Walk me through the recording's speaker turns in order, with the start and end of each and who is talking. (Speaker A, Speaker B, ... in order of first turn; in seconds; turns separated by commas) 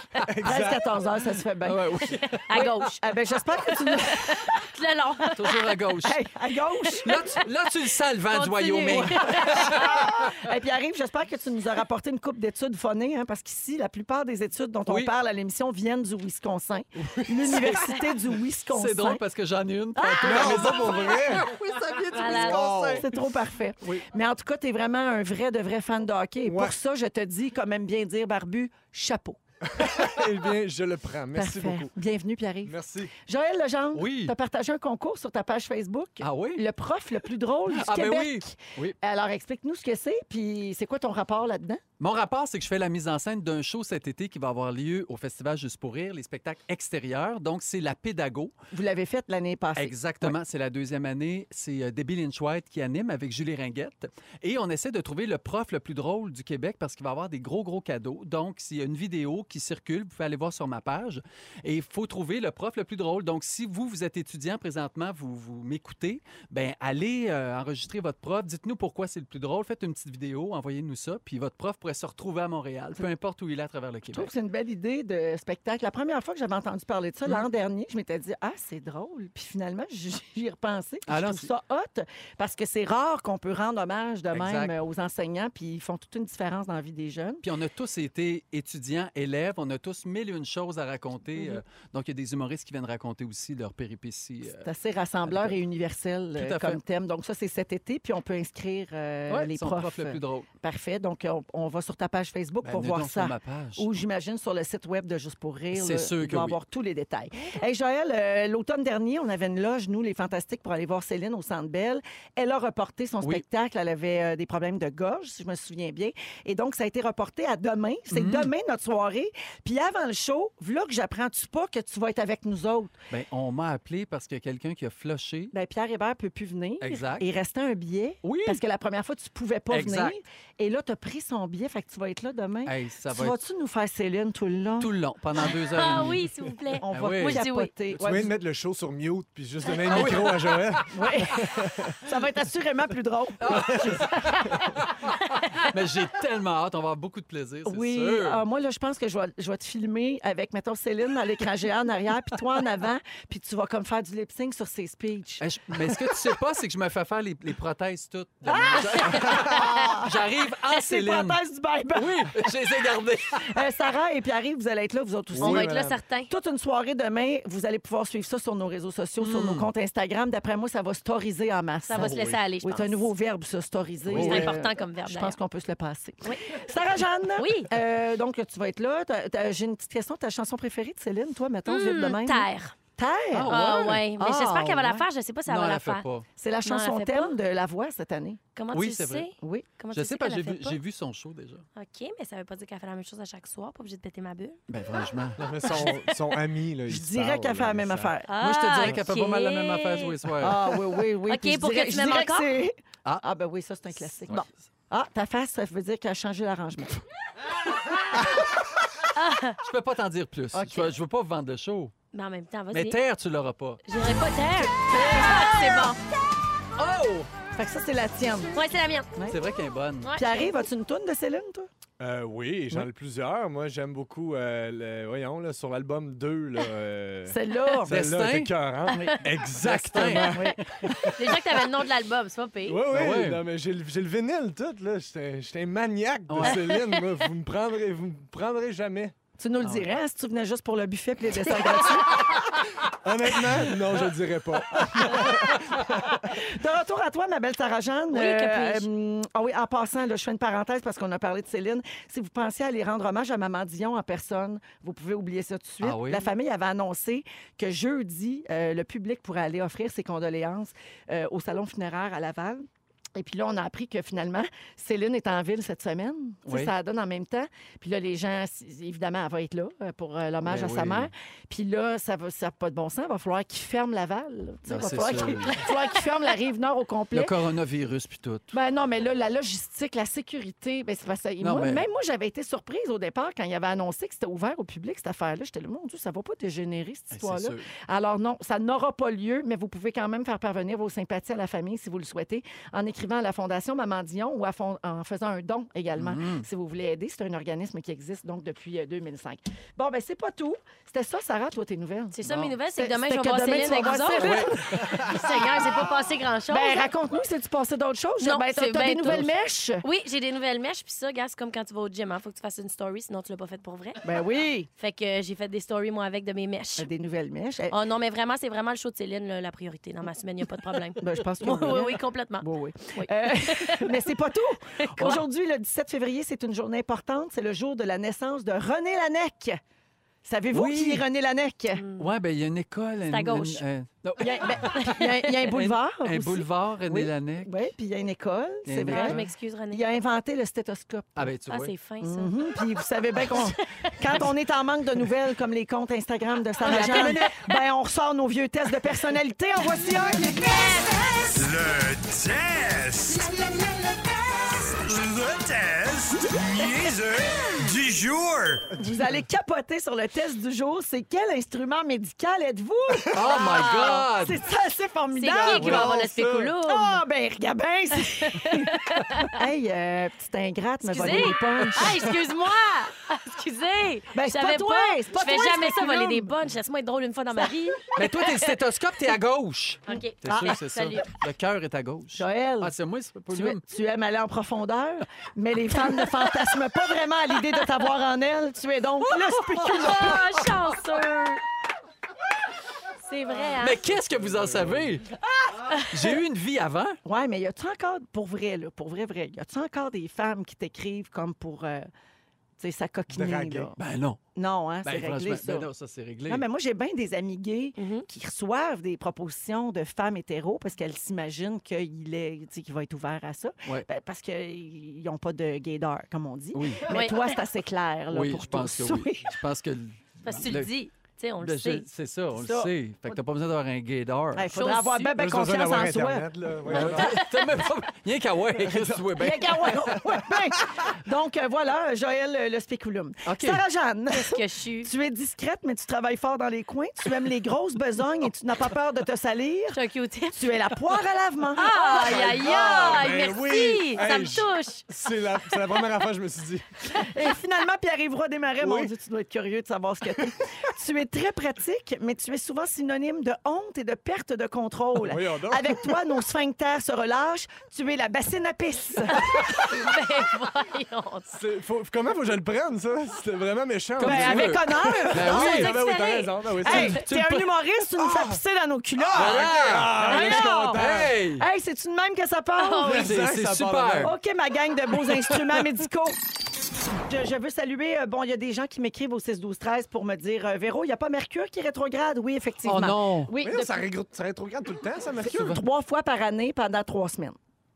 Speaker A: 0.2-0.8, Speaker B: 0.4-4.5, Speaker C: 1.6-2.4, Speaker D: 2.0-2.9, Speaker D: 3.6-5.7, Speaker C: 5.3-6.2, Speaker B: 6.0-7.1, Speaker C: 7.0-10.3, Speaker D: 8.3-10.1, Speaker B: 9.5-19.2, Speaker C: 14.8-15.1, Speaker C: 17.0-18.1, Speaker C: 18.7-23.1, Speaker B: 19.9-21.1, Speaker A: 20.2-21.5, Speaker A: 22.1-23.1, Speaker D: 22.1-22.7, Speaker B: 22.3-29.4, Speaker C: 23.8-24.1, Speaker A: 26.4-26.8, Speaker A: 29.6-31.9, Speaker B: 31.3-41.8, Speaker A: 32.6-33.1, Speaker C: 33.9-34.3, Speaker C: 36.2-36.6, Speaker C: 37.7-39.0, Speaker C: 42.0-48.5, Speaker B: 48.7-50.4, Speaker C: 49.8-74.3, Speaker B: 74.1-87.4, Speaker C: 81.1-81.5, Speaker C: 84.3-84.7, Speaker C: 87.4-94.7, Speaker B: 91.3-91.6, Speaker B: 94.5-122.9, Speaker C: 95.2-95.6, Speaker C: 96.3-96.8, Speaker C: 99.3-100.5, Speaker C: 102.6-103.9, Speaker C: 105.7-106.6, Speaker C: 118.1-118.5, Speaker C: 123.1-125.5, Speaker B: 125.5-134.9, Speaker C: 126.8-127.2, Speaker C: 128.2-128.6, Speaker C: 129.7-130.2, Speaker C: 132.7-133.4, Speaker C: 134.8-137.4, Speaker D: 135.4-137.7, Speaker B: 136.8-138.3, Speaker A: 137.9-142.0, Speaker C: 139.8-141.2, Speaker B: 140.9-144.3, Speaker C: 143.4-148.4, Speaker A: 143.5-144.1, Speaker B: 147.6-156.3, Speaker C: 155.4-161.4, Speaker B: 158.4-160.1, Speaker B: 160.6-162.4, Speaker C: 161.9-163.5, Speaker B: 163.4-165.7, Speaker A: 165.3-166.0, Speaker D: 165.3-166.3, Speaker B: 166.3-183.5, Speaker C: 169.2-169.7, Speaker D: 171.9-173.1, Speaker C: 171.9-172.4, Speaker A: 174.1-174.5, Speaker C: 174.1-174.4, Speaker D: 174.1-175.4, Speaker D: 177.3-177.7, Speaker D: 181.7-182.7, Speaker C: 183.3-186.2, Speaker D: 183.5-186.0, Speaker B: 184.2-184.9, Speaker B: 186.4-188.4, Speaker D: 186.6-187.3, Speaker D: 188.5-190.8, Speaker C: 188.7-189.3, Speaker B: 189.4-189.7, Speaker C: 189.9-191.6, Speaker D: 191.8-195.1, Speaker C: 194.7-195.5, Speaker A: 195.4-198.1, Speaker D: 195.6-196.2, Speaker B: 196.9-198.3, Speaker D: 198.3-200.1, Speaker C: 198.4-200.8, Speaker B: 200.4-207.0, Speaker D: 201.2-202.5, Speaker C: 203.9-204.5, Speaker D: 209.1-209.6, Speaker C: 209.6-211.9, Speaker B: 210.5-210.9, Speaker D: 212.1-212.9, Speaker C: 212.7-213.8, Speaker D: 213.8-216.0, Speaker B: 214.9-215.5, Speaker C: 216.8-217.3, Speaker B: 217.5-218.6, Speaker D: 218.5-219.1, Speaker C: 219.3-220.1, Speaker D: 220.0-220.6, Speaker B: 220.1-221.7, Speaker A: 222.0-231.4, Speaker B: 227.3-227.9, Speaker C: 227.9-228.6, Speaker B: 228.9-230.6, Speaker C: 229.6-230.7, Speaker D: 231.1-232.8, Speaker A: 232.6-239.1, Speaker C: 232.9-233.4, Speaker C: 236.3-236.6, Speaker D: 236.4-237.1, Speaker B: 239.4-242.4, Speaker C: 239.6-239.9, Speaker A: 242.1-246.4, Speaker B: 244.9-245.6, Speaker B: 246.1-277.3, Speaker D: 248.1-248.9, Speaker C: 255.8-256.3, Speaker C: 266.4-266.7, Speaker C: 270.4-271.1, Speaker C: 274.7-275.7, Speaker C: 277.1-278.5, Speaker B: 278.5-305.4, Speaker C: 281.4-281.9, Speaker C: 287.1-287.7, Speaker C: 295.9-296.4, Speaker D: 302.1-306.9, Speaker C: 302.2-302.6, Speaker C: 304.2-304.5, Speaker B: 306.5-309.8, Speaker D: 308.2-314.0, Speaker B: 314.0-314.7, Speaker D: 314.8-316.9, Speaker B: 316.8-317.8, Speaker D: 317.7-324.1, Speaker B: 321.0-329.6, Speaker D: 324.8-325.2, Speaker B: 330.2-331.8, Speaker C: 330.5-331.0, Speaker D: 331.8-332.1, Speaker C: 332.0-337.7, Speaker D: 333.1-333.6, Speaker B: 334.2-341.3, Speaker D: 334.7-335.1, Speaker C: 338.6-339.3, Speaker D: 338.9-339.8, Speaker C: 341.1-341.7, Speaker D: 341.5-342.3, Speaker B: 342.0-350.4, Speaker D: 343.2-344.2, Speaker D: 346.6-347.6, Speaker C: 346.6-347.3, Speaker D: 350.5-351.0, Speaker E: 350.6-358.7, Speaker B: 358.8-368.7, Speaker C: 363.1-364.4, Speaker D: 363.2-364.1, Speaker D: 365.1-367.0, Speaker A: 365.4-366.5, Speaker D: 368.1-369.4, Speaker B: 369.2-371.9, Speaker D: 370.8-378.5, Speaker B: 374.1-376.4, Speaker C: 377.9-383.6, Speaker D: 379.9-381.1, Speaker B: 382.1-382.7, Speaker B: 383.3-390.2, Speaker C: 385.8-386.1, Speaker C: 389.1-390.8, Speaker D: 389.7-391.4, Speaker D: 393.0-393.9, Speaker C: 393.6-395.1, Speaker A: 393.9-395.0, Speaker D: 395.7-396.1, Speaker C: 395.7-397.0, Speaker B: 397.0-401.9, Speaker B: 402.6-403.8, Speaker A: 403.1-403.7, Speaker C: 403.8-404.2, Speaker B: 404.3-405.7, Speaker C: 404.8-406.4, Speaker B: 406.3-419.4, Speaker D: 407.8-408.1, Speaker C: 416.5-416.9, Speaker D: 416.9-417.4, Speaker C: 418.1-420.7, Speaker D: 420.2-421.8, Speaker C: 421.4-424.5, Speaker B: 422.3-422.7, Speaker B: 424.3-426.3, Speaker D: 424.5-425.1, Speaker A: 425.1-427.2, Speaker C: 426.6-429.8, Speaker D: 427.0-427.4, Speaker A: 428.6-430.5, Speaker B: 429.2-439.8, Speaker C: 433.2-433.6, Speaker D: 434.1-434.9, Speaker D: 439.7-440.7, Speaker B: 440.3-443.0, Speaker D: 441.5-444.8, Speaker A: 441.8-446.8, Speaker B: 446.9-459.2, Speaker A: 448.6-448.9, Speaker A: 455.0-456.2, Speaker D: 459.1-461.4, Speaker A: 461.3-467.0, Speaker C: 464.0-465.8, Speaker B: 464.0-465.5, Speaker D: 465.2-466.9, Speaker B: 466.6-470.8, Speaker C: 466.7-467.5, Speaker A: 468.0-468.4, Speaker A: 469.0-471.2, Speaker C: 469.1-471.4, Speaker D: 470.1-470.4, Speaker B: 471.4-473.0, Speaker D: 472.6-473.1, Speaker A: 472.8-474.1, Speaker C: 472.9-474.1, Speaker B: 474.0-476.2, Speaker B: 477.1-483.9, Speaker C: 482.6-483.3, Speaker A: 483.4-485.6, Speaker B: 485.2-487.4